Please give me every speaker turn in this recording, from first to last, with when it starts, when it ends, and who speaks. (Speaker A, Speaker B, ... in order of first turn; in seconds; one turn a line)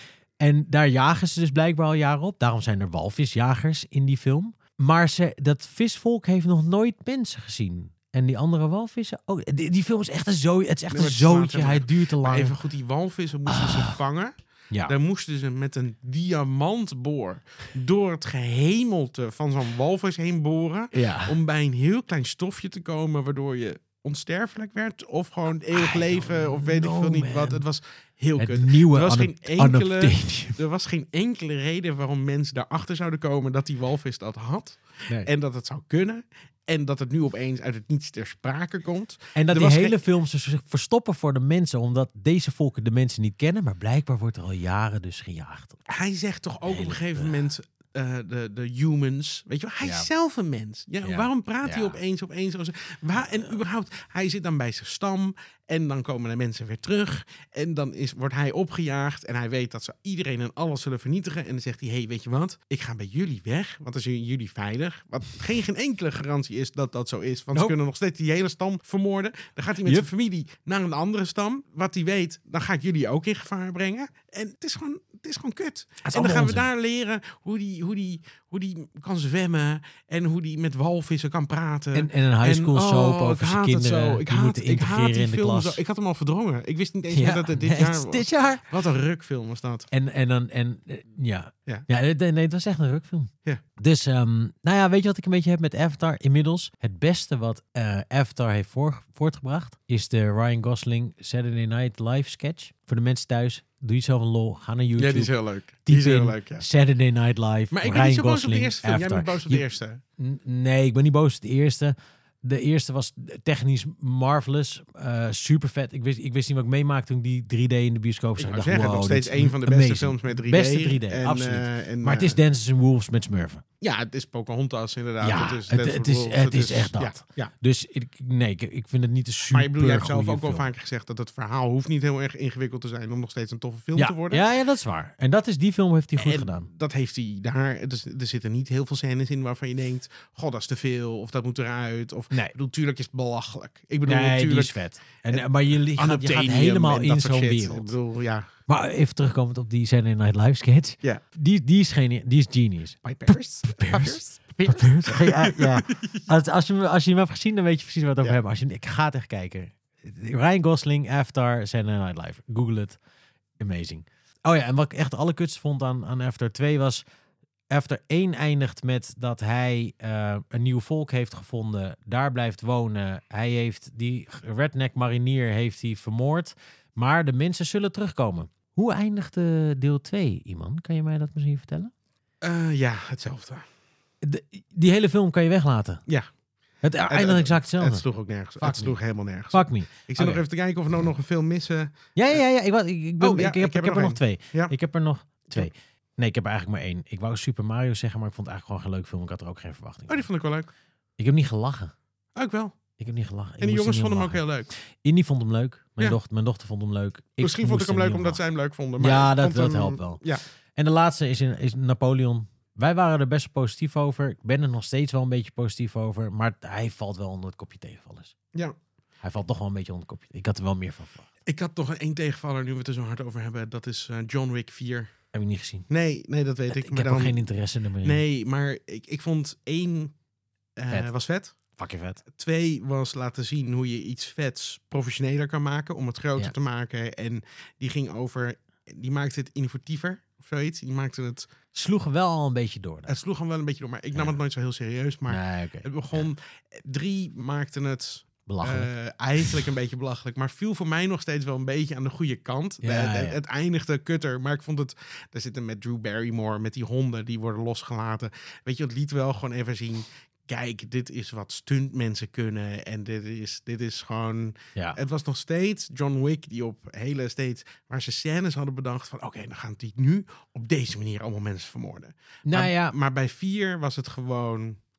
Speaker A: 0.4-12.6
Speaker B: 10.9-40.0
Speaker A: 13.5-14.0
Speaker A: 20.9-21.4
Speaker A: 25.7-27.6
Speaker A: 28.4-30.6
Speaker A: 39.4-45.9
Speaker B: 45.9-89.9
Speaker A: 46.7-47.4
Speaker A: 49.8-50.1
Speaker A: 51.0-52.0
Speaker A: 76.0-76.7
Speaker A: 81.9-85.8
Speaker A: 87.1-88.7
Speaker A: 89.9-105.3
Speaker B: 105.0-106.7
Speaker A: 105.9-109.7
Speaker B: 107.7-110.0
Speaker A: 110.2-123.6
Speaker B: 118.4-122.4
Speaker B: 123.8-127.5
Speaker A: 125.2-130.7
Speaker B: 129.5-134.4
Speaker A: 134.0-136.7
Speaker B: 136.2-144.8
Speaker A: 144.1-147.9
Speaker B: 145.3-148.5
Speaker A: 148.7-163.0
Speaker B: 153.1-156.3
Speaker A: 163.6-167.0
Speaker A: 167.7-181.9
Speaker B: 182.4-183.6
Speaker A: 184.2-186.0
Speaker A: 186.8-188.0
Speaker B: 187.1-192.4
Speaker A: 188.6-189.0
Speaker A: 189.5-190.4
Speaker A: 192.2-200.3
Speaker B: 193.2-194.8
Speaker B: 200.1-200.7
Speaker A: 201.2-201.9
Speaker B: 202.4-202.8
Speaker A: 203.0-204.4
Speaker B: 203.6-204.7
Speaker A: 205.0-208.4
Speaker B: 207.4-210.4
Speaker A: 209.0-210.2
Speaker A: 210.8-218.3
Speaker A: 219.2-221.3
Speaker B: 221.5-225.1
Speaker A: 225.3-225.9
Speaker B: 225.9-227.4
Speaker A: 226.7-228.2
Speaker B: 228.0-230.1
Speaker B: 230.8-231.6
Speaker A: 231.8-232.2
Speaker B: 232.3-241.5
Speaker A: 241.7-243.2
Speaker B: 243.1-274.8
Speaker A: 245.3-246.3
Speaker A: 248.5-248.9
Speaker A: 252.8-253.4
Speaker A: 272.5-272.9